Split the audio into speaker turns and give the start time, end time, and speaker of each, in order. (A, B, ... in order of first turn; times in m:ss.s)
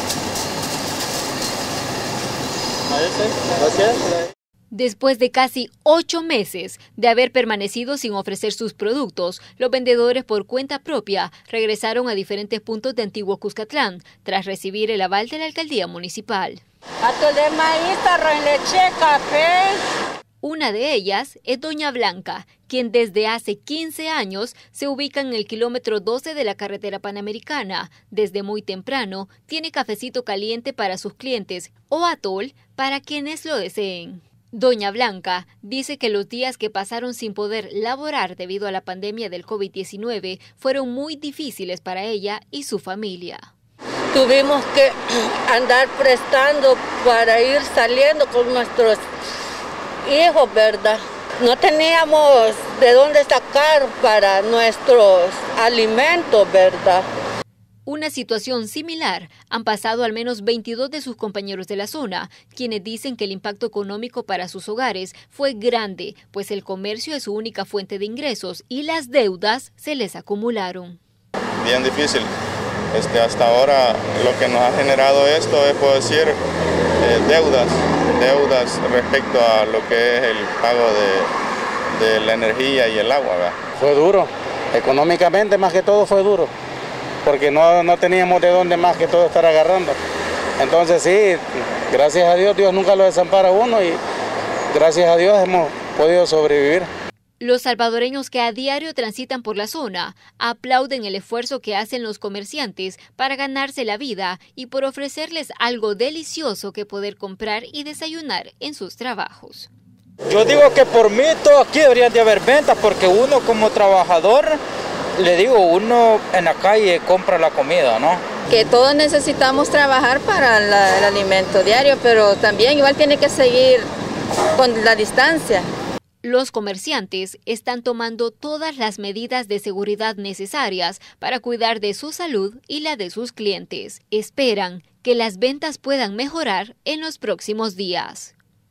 0:04.7-0:16.6 A
0:17.0-0:19.8 B
0:20.4-0:43.5 A
0:44.1-0:49.0 B
0:50.0-0:57.1 B
0:57.9-1:11.0 A
1:11.6-1:12.3 C
1:12.9-1:16.4 C
1:17.0-1:21.3 C
1:22.0-1:23.6 C
1:23.8-1:26.5 D
1:27.2-1:30.0 D
1:30.6-1:34.0 D
1:34.7-1:36.9 D
1:37.4-1:49.7 A
1:50.3-1:54.6 E
1:55.2-1:58.2 E
1:58.5-2:03.9 F
2:04.6-2:05.7 F
2:06.2-2:18.3 A